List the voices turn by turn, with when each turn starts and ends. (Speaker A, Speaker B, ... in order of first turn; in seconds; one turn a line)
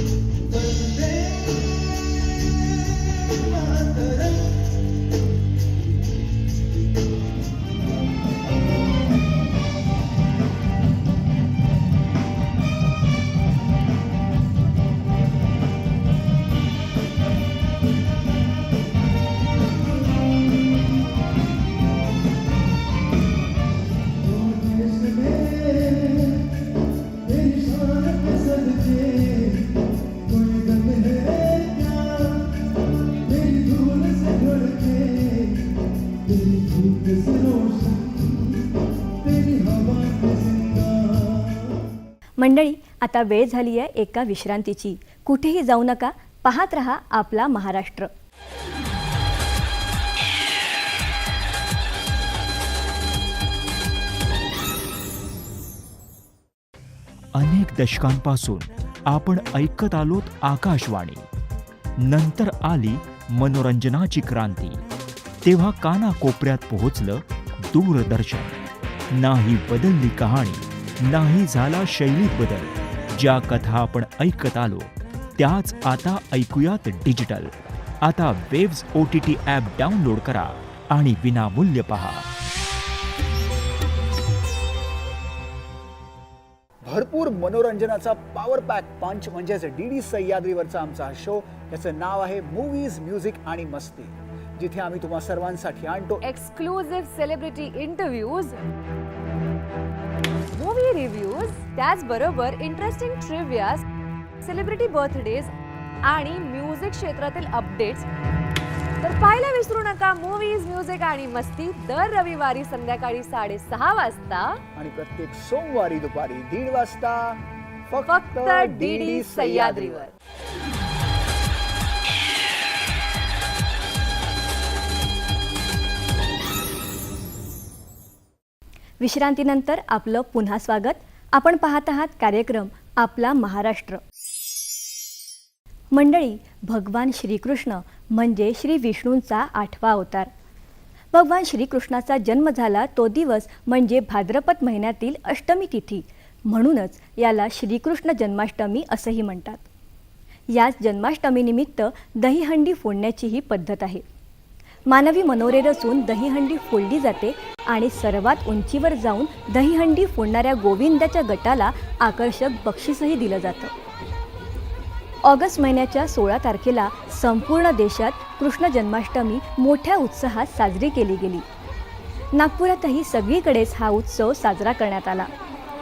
Speaker A: 42.4-48.1
Speaker B: 57.3-61.2
Speaker B: 62.0-64.8
Speaker B: 65.4-68.5
Speaker B: 69.1-82.3
Speaker C: 86.8-96.2
Speaker D: 96.2-98.6
Speaker D: 100.5-103.8
Speaker D: 104.4-105.5
Speaker D: 106.0-108.0
Speaker D: 109.0-114.6
Speaker C: 114.8-120.1
Speaker D: 118.0-120.1
Speaker A: 129.0-134.0
Speaker A: 135.9-140.3
Speaker A: 141.1-149.6
Speaker A: 150.5-154.0
Speaker A: 154.9-163.7
Speaker A: 165.2-171.4
Speaker A: 172.3-175.3